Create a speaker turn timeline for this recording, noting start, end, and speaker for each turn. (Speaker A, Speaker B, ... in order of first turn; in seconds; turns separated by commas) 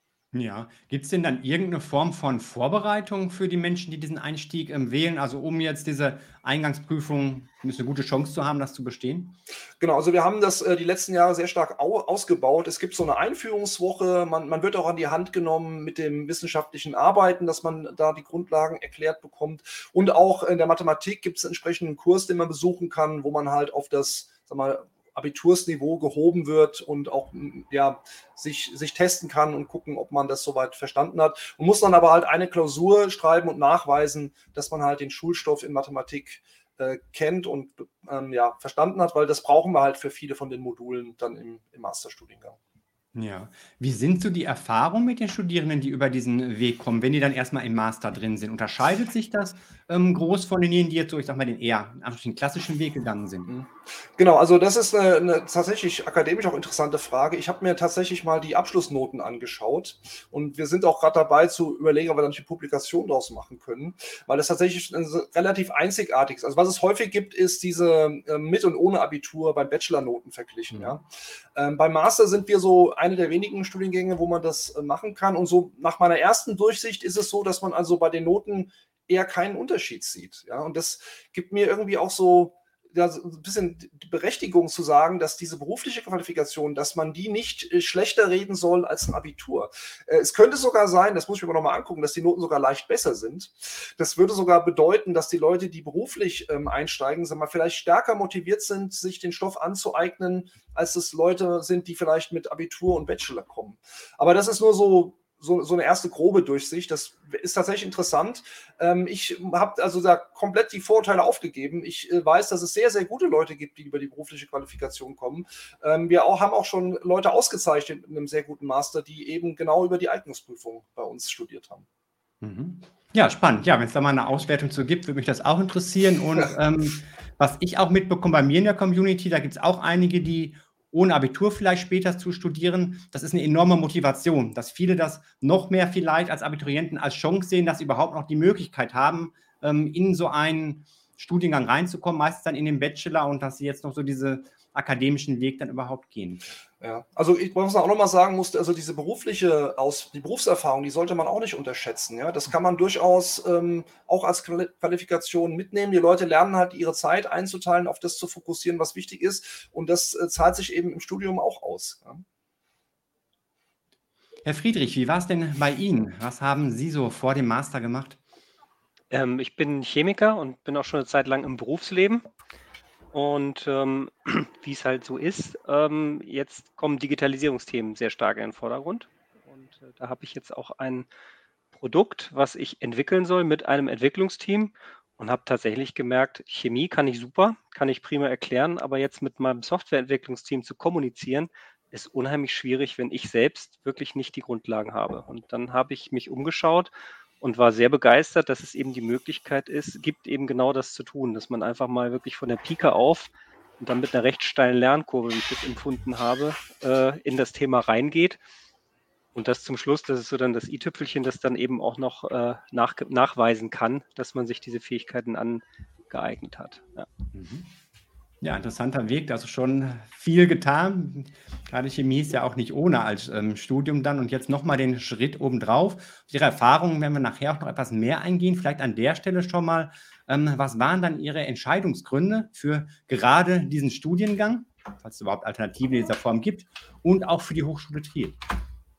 Speaker A: 0.3-9.4, Speaker B: 9.8-42.6, Speaker A: 43.1-53.5, Speaker B: 53.5-121.9, Speaker A: 122.4-146.5, Speaker B: 146.8-162.2, Speaker A: 164.4-168.2, Speaker C: 169.1-172.3, Speaker C: 173.1-181.1, Speaker C: 181.7-208.4, Speaker C: 209.3-217.1, Speaker A: 217.3-217.7, Speaker A: 218.4-238.4